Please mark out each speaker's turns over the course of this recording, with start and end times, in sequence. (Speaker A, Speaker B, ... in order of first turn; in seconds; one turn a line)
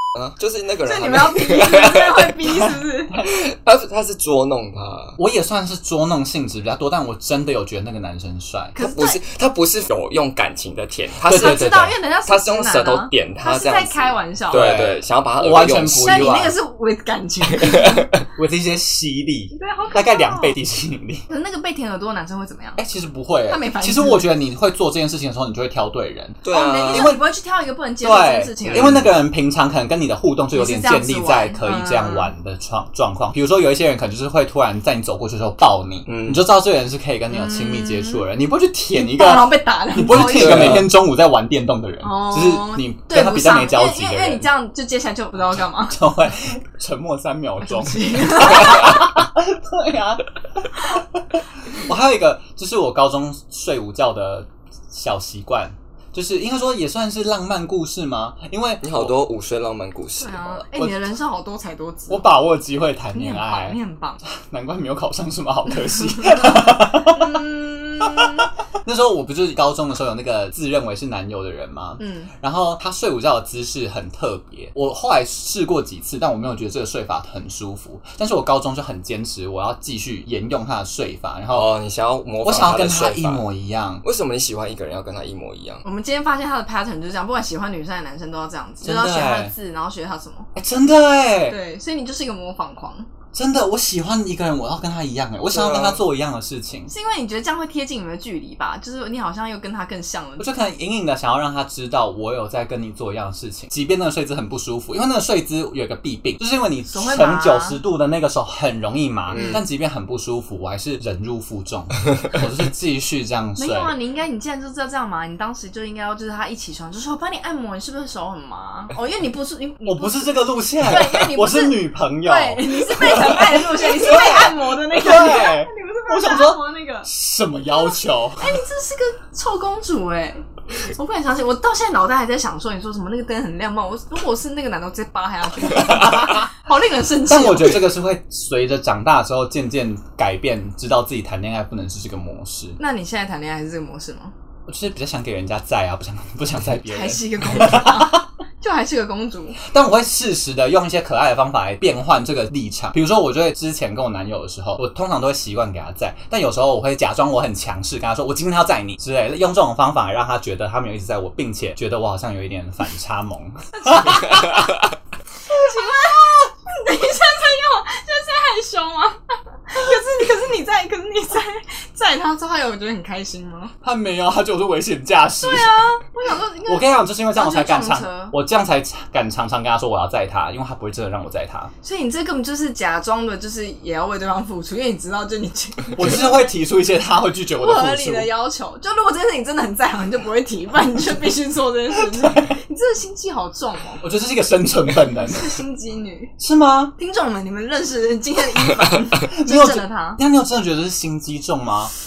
Speaker A: 0.1-2.5
Speaker B: 0.8-3.2
Speaker A: 3.2-5.2
Speaker C: 5.2-8.7
Speaker B: 8.7-9.2
Speaker A: 8.8-16.5
Speaker C: 11.2-11.9
Speaker B: 11.3-14.7
Speaker C: 14.5-16.5
Speaker B: 16.0-18.1
Speaker A: 17.5-18.1
Speaker C: 18.4-21.2
Speaker B: 19.5-20.6
Speaker B: 21.3-22.8
Speaker C: 22.8-27.2
Speaker B: 23.5-24.3
Speaker A: 26.4-27.2
Speaker B: 26.5-29.0
Speaker C: 28.0-44.5
Speaker A: 28.7-29.1
Speaker B: 30.5-32.3
Speaker A: 36.1-36.4
Speaker B: 37.3-38.2
Speaker B: 38.9-40.9
Speaker A: 40.1-40.9
Speaker B: 42.0-46.0
Speaker C: 45.9-50.2
Speaker B: 47.6-49.0
Speaker C: 50.9-59.1
Speaker A: 58.8-60.6
Speaker B: 60.2-62.3
Speaker C: 60.7-61.1
Speaker C: 62.1-63.8
Speaker B: 63.1-64.2
Speaker C: 64.3-67.4
Speaker B: 66.1-68.5
Speaker C: 68.0-81.7
Speaker B: 72.0-72.3
Speaker A: 81.5-83.4
Speaker C: 82.4-84.0
Speaker A: 84.0-85.8
Speaker B: 85.8-90.5
Speaker C: 88.8-89.5
Speaker C: 90.5-91.6
Speaker B: 91.5-93.1
Speaker C: 93.3-96.9
Speaker A: 95.5-96.0
Speaker B: 96.9-100.5
Speaker C: 100.4-113.9
Speaker B: 106.9-107.8
Speaker A: 109.3-109.6
Speaker B: 113.6-127.1
Speaker C: 119.8-128.6
Speaker B: 127.7-137.9
Speaker C: 135.7-136.5
Speaker C: 137.2-142.8
Speaker B: 142.8-144.3
Speaker C: 144.7-148.2
Speaker B: 146.8-149.6
Speaker C: 149.6-164.6
Speaker B: 163.8-164.6
Speaker B: 165.4-173.7
Speaker C: 165.5-165.9
Speaker C: 173.8-175.8
Speaker B: 175.4-178.3
Speaker C: 176.7-181.7
Speaker B: 181.8-186.5
Speaker C: 185.9-188.3
Speaker B: 187.6-194.0
Speaker C: 192.1-192.5
Speaker C: 194.0-195.6
Speaker B: 195.3-196.3
Speaker C: 196.4-196.9
Speaker B: 197.0-200.2
Speaker C: 199.3-201.9